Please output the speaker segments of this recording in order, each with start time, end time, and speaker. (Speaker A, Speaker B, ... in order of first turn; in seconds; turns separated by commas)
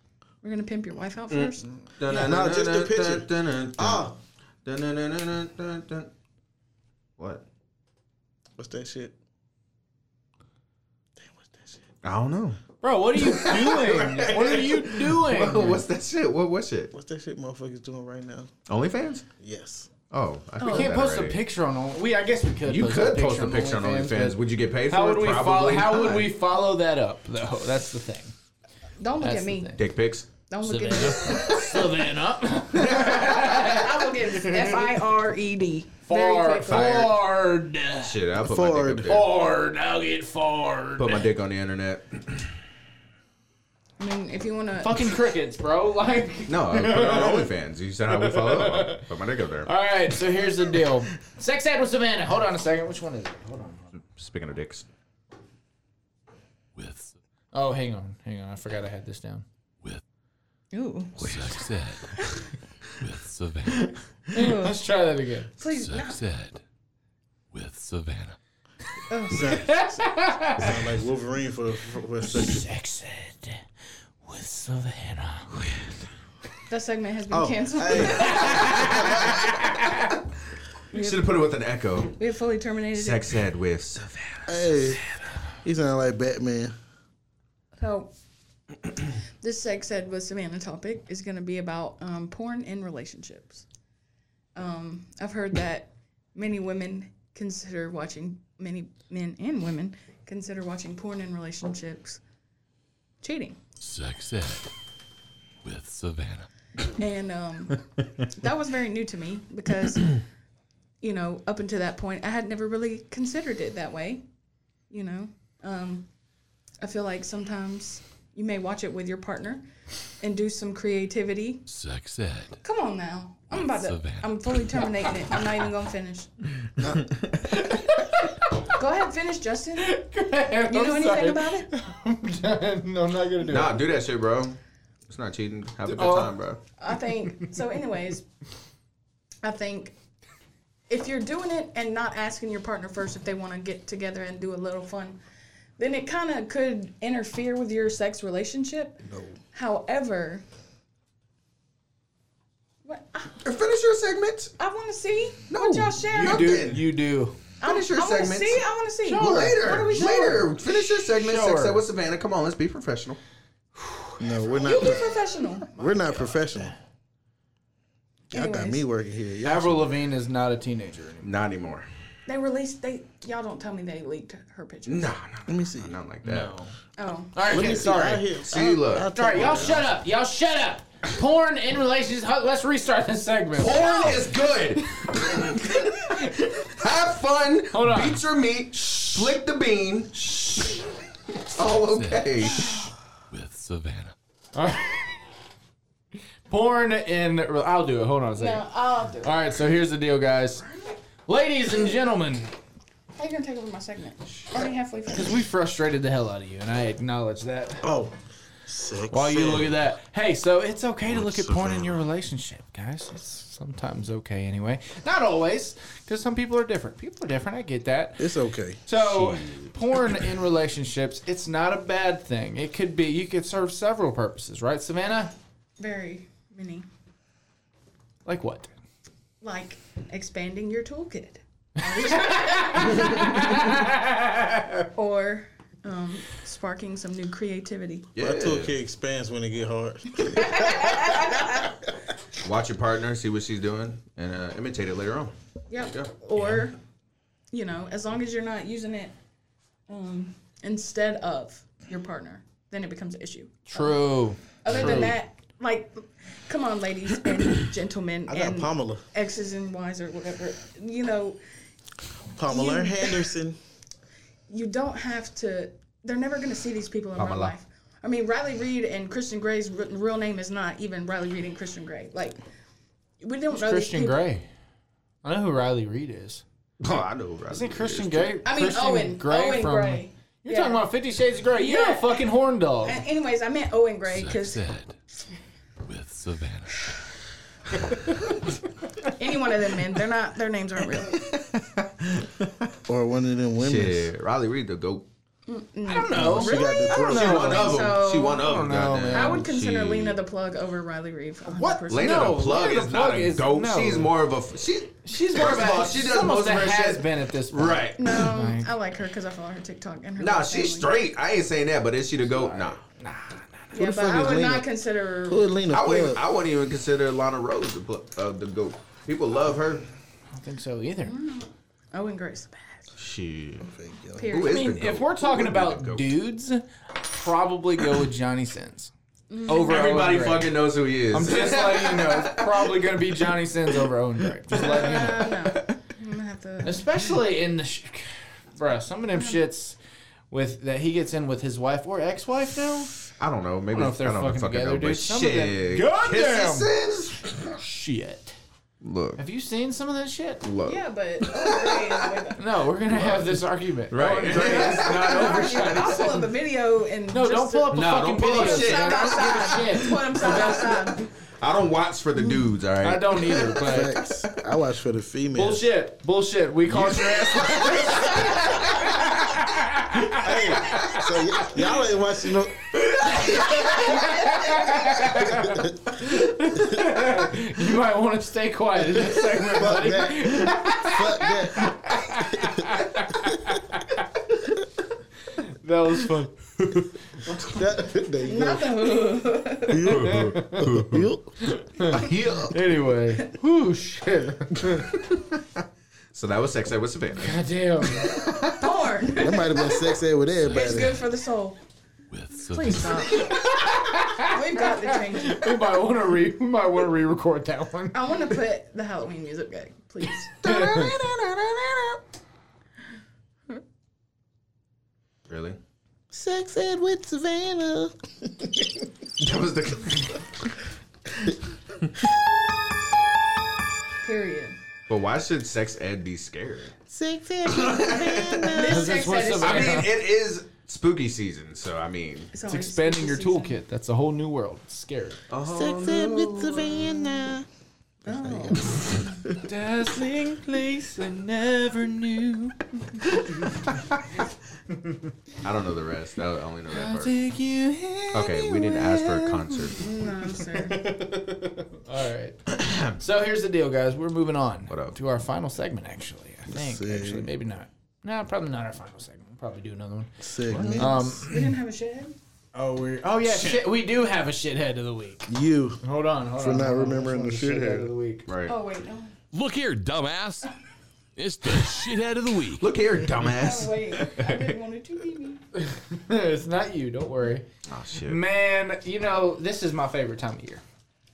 Speaker A: 0.4-1.7, Speaker B: 1.3-4.1, Speaker C: 2.1-4.2, Speaker B: 4.7-6.1, Speaker B: 7.2-7.4, Speaker C: 8.6-9.1, Speaker C: 11.2-11.8, Speaker B: 12.0-12.6, Speaker D: 12.8-15.8, Speaker B: 13.2-16.9, Speaker C: 16.9-18.5, Speaker B: 18.7-19.2, Speaker C: 19.4-19.9, Speaker B: 20.1-21.4, Speaker A: 20.6-20.9, Speaker D: 20.6-28.3, Speaker B: 22.6-26.3, Speaker A: 29.0-29.7, Speaker D: 29.2-29.8, Speaker B: 29.8-30.3, Speaker A: 30.5-31.6, Speaker D: 30.6-34.8, Speaker B: 31.2-31.7, Speaker B: 32.7-33.5, Speaker A: 33.0-37.1, Speaker D: 36.1-38.2, Speaker B: 36.7-37.2, Speaker B: 38.0-39.3, Speaker C: 38.4-39.2, Speaker D: 39.1-41.3, Speaker B: 41.0-42.5, Speaker A: 44.0-45.1, Speaker D: 44.8-47.5, Speaker B: 46.5-49.7, Speaker D: 48.1-49.0, Speaker D: 49.6-53.9, Speaker B: 54.0-54.9, Speaker E: 56.8-57.2, Speaker D: 57.5-59.5, Speaker A: 60.7-61.4, Speaker E: 61.2-62.4, Speaker B: 61.2-61.5, Speaker A: 62.1-62.4, Speaker E: 63.0-63.9, Speaker A: 64.3-64.8, Speaker D: 64.3-65.5, Speaker A: 65.6-66.2, Speaker E: 65.7-66.6, Speaker E: 67.5-68.4, Speaker A: 69.1-69.7, Speaker C: 69.3-72.7, Speaker D: 69.5-70.8, Speaker D: 72.2-73.6, Speaker D: 74.2-75.7, Speaker A: 76.7-79.0, Speaker C: 77.3-79.4, Speaker D: 78.3-80.0, Speaker A: 80.9-81.4, Speaker B: 80.9-82.2, Speaker A: 82.2-83.3, Speaker B: 82.9-85.0, Speaker C: 84.5-85.0, Speaker C: 85.6-86.7, Speaker A: 87.8-88.1, Speaker A: 89.4-93.6, Speaker A: 94.5-102.2, Speaker A: 103.2-103.6, Speaker E: 103.8-104.7, Speaker E: 105.6-106.5, Speaker A: 107.0-110.2, Speaker A: 111.0-114.2, Speaker A: 114.9-116.1, Speaker A: 116.8-119.6, Speaker A: 120.2-121.6, Speaker E: 121.7-122.6, Speaker A: 122.6-126.3, Speaker E: 123.5-124.8, Speaker B: 126.8-127.2, Speaker D: 127.5-128.7, Speaker A: 128.7-129.9, Speaker D: 129.8-133.8, Speaker A: 130.7-131.7, Speaker B: 133.4-134.6, Speaker B: 135.1-136.6, Speaker D: 135.9-136.3, Speaker A: 136.8-138.2, Speaker A: 139.4-139.9, Speaker A: 140.9-145.2, Speaker A: 145.8-149.0, Speaker C: 149.1-149.4, Speaker A: 149.5-150.4, Speaker A: 152.8-153.4, Speaker B: 153.4-154.5, Speaker A: 154.6-156.6, Speaker B: 155.5-156.8, Speaker D: 156.0-157.4, Speaker A: 157.6-160.5, Speaker B: 157.6-163.2, Speaker D: 159.1-160.4, Speaker D: 161.1-161.8, Speaker D: 163.8-164.1, Speaker C: 164.2-165.1, Speaker A: 164.6-165.7, Speaker C: 165.7-166.7, Speaker A: 168.3-168.8, Speaker C: 168.3-169.9, Speaker D: 169.4-171.3, Speaker B: 171.2-171.9, Speaker A: 172.3-175.2, Speaker B: 174.9-176.6, Speaker C: 175.5-175.9, Speaker D: 176.2-176.7, Speaker A: 177.0-177.3, Speaker D: 177.3-178.3, Speaker C: 177.5-179.9, Speaker B: 177.5-177.8, Speaker B: 178.4-179.8, Speaker D: 179.1-184.3, Speaker B: 183.6-190.8, Speaker D: 187.7-188.2, Speaker B: 191.5-192.7, Speaker E: 191.9-192.7, Speaker E: 193.3-194.2, Speaker D: 194.6-195.2, Speaker D: 196.5-198.6, Speaker A: 198.4-199.4, Speaker D: 199.2-200.7, Speaker D: 201.3-202.5, Speaker A: 203.2-205.4, Speaker D: 205.1-207.9, Speaker C: 207.8-208.1, Speaker C: 208.7-209.8, Speaker D: 209.1-218.3, Speaker C: 211.1-212.0, Speaker C: 218.2-218.8, Speaker D: 218.9-225.3, Speaker A: 225.8-226.9, Speaker D: 228.3-228.7, Speaker A: 229.4-233.8, Speaker D: 231.8-234.7, Speaker A: 234.9-238.1, Speaker B: 238.2-238.7, Speaker C: 238.2-241.2, Speaker A: 240.2-241.8, Speaker B: 242.4-246.1, Speaker A: 245.7-246.8, Speaker A: 247.5-249.1, Speaker A: 249.9-254.0, Speaker D: 253.7-255.1, Speaker A: 254.6-261.4, Speaker B: 254.7-255.1, Speaker C: 258.3-259.0, Speaker C: 262.4-263.6, Speaker A: 262.5-263.3, Speaker A: 264.5-272.4, Speaker B: 267.2-267.5, Speaker A: 273.2-274.2, Speaker D: 273.5-274.5, Speaker D: 275.2-276.4, Speaker B: 276.8-278.4, Speaker D: 277.5-283.0, Speaker A: 278.4-280.9, Speaker A: 281.5-282.3, Speaker A: 282.8-284.6, Speaker E: 284.1-284.9, Speaker E: 285.8-286.9, Speaker A: 289.1-291.2, Speaker B: 291.1-292.5, Speaker C: 292.9-294.1, Speaker B: 293.6-295.1, Speaker A: 295.5-298.6, Speaker D: 295.9-299.4, Speaker C: 296.1-297.5, Speaker B: 297.1-300.2, Speaker A: 299.1-302.4, Speaker D: 301.5-304.1, Speaker B: 301.9-308.3, Speaker D: 305.1-308.7, Speaker A: 308.0-310.9, Speaker B: 310.2-312.8, Speaker D: 312.3-313.6, Speaker A: 313.7-315.4, Speaker C: 313.7-314.7, Speaker C: 315.3-316.2, Speaker B: 315.7-319.9, Speaker D: 320.4-321.1, Speaker A: 321.0-322.9, Speaker B: 323.0-323.7, Speaker C: 323.6-324.4, Speaker A: 324.2-324.7, Speaker B: 324.3-326.1, Speaker D: 324.5-328.9, Speaker A: 329.3-329.8, Speaker D: 329.5-330.6, Speaker B: 329.5-332.7, Speaker D: 331.1-335.7, Speaker A: 334.6-336.8, Speaker D: 336.6-339.8, Speaker D: 340.3-342.9, Speaker B: 343.2-347.6, Speaker D: 343.7-346.7, Speaker D: 347.6-348.4, Speaker B: 348.8-349.2, Speaker D: 349.2-350.5, Speaker B: 350.4-352.1, Speaker A: 350.6-352.4, Speaker D: 352.4-356.3, Speaker B: 352.9-353.3, Speaker B: 353.9-356.0, Speaker A: 354.3-361.0, Speaker D: 357.1-360.9, Speaker B: 357.7-360.6, Speaker B: 361.4-363.6, Speaker D: 362.8-364.0, Speaker C: 363.5-365.6, Speaker D: 365.4-371.4, Speaker B: 366.7-368.5, Speaker C: 370.0-374.2, Speaker D: 373.1-384.1, Speaker C: 375.0-375.7, Speaker C: 378.9-382.6, Speaker C: 383.3-383.5, Speaker D: 385.4-386.9, Speaker C: 387.3-388.9, Speaker A: 388.2-389.9, Speaker C: 389.7-391.3, Speaker B: 389.9-391.1, Speaker D: 389.9-390.8, Speaker D: 391.4-394.9, Speaker B: 391.8-392.6, Speaker B: 394.7-395.4, Speaker B: 396.1-397.4, Speaker D: 397.2-398.3, Speaker B: 397.9-398.7, Speaker A: 398.6-399.9, Speaker C: 399.2-401.0, Speaker E: 400.4-400.9, Speaker A: 400.5-401.6, Speaker E: 402.1-403.2, Speaker A: 402.5-405.6, Speaker D: 403.1-408.0, Speaker A: 407.9-410.4, Speaker B: 410.4-412.0, Speaker D: 410.4-410.9, Speaker B: 415.3-415.6, Speaker C: 416.1-418.7, Speaker B: 419.2-420.2, Speaker A: 424.0-424.6, Speaker B: 424.9-426.8, Speaker C: 426.9-429.2, Speaker B: 427.5-428.6, Speaker A: 428.5-429.9, Speaker D: 428.7-429.9, Speaker B: 429.4-432.3, Speaker A: 432.3-433.6, Speaker D: 432.5-435.2, Speaker B: 435.3-437.1, Speaker C: 435.4-437.5, Speaker C: 438.1-438.7, Speaker A: 438.1-439.1, Speaker D: 439.3-442.6, Speaker B: 445.4-447.1, Speaker D: 446.7-449.8, Speaker B: 448.1-449.9, Speaker A: 449.8-450.8, Speaker D: 450.4-452.4, Speaker B: 452.6-452.9, Speaker D: 452.9-460.1, Speaker B: 454.7-455.0, Speaker C: 456.5-457.3, Speaker C: 460.2-461.0, Speaker B: 460.5-461.0, Speaker D: 460.8-461.4, Speaker A: 461.2-462.1, Speaker D: 462.6-465.3, Speaker B: 463.2-463.6, Speaker C: 465.3-465.8, Speaker D: 465.8-468.3, Speaker C: 466.4-467.9, Speaker B: 468.3-468.5, Speaker A: 468.5-469.1, Speaker E: 469.3-470.5, Speaker E: 471.2-472.7, Speaker B: 472.6-474.6, Speaker A: 473.2-475.4, Speaker D: 475.6-477.5, Speaker B: 477.7-478.2, Speaker D: 478.0-480.6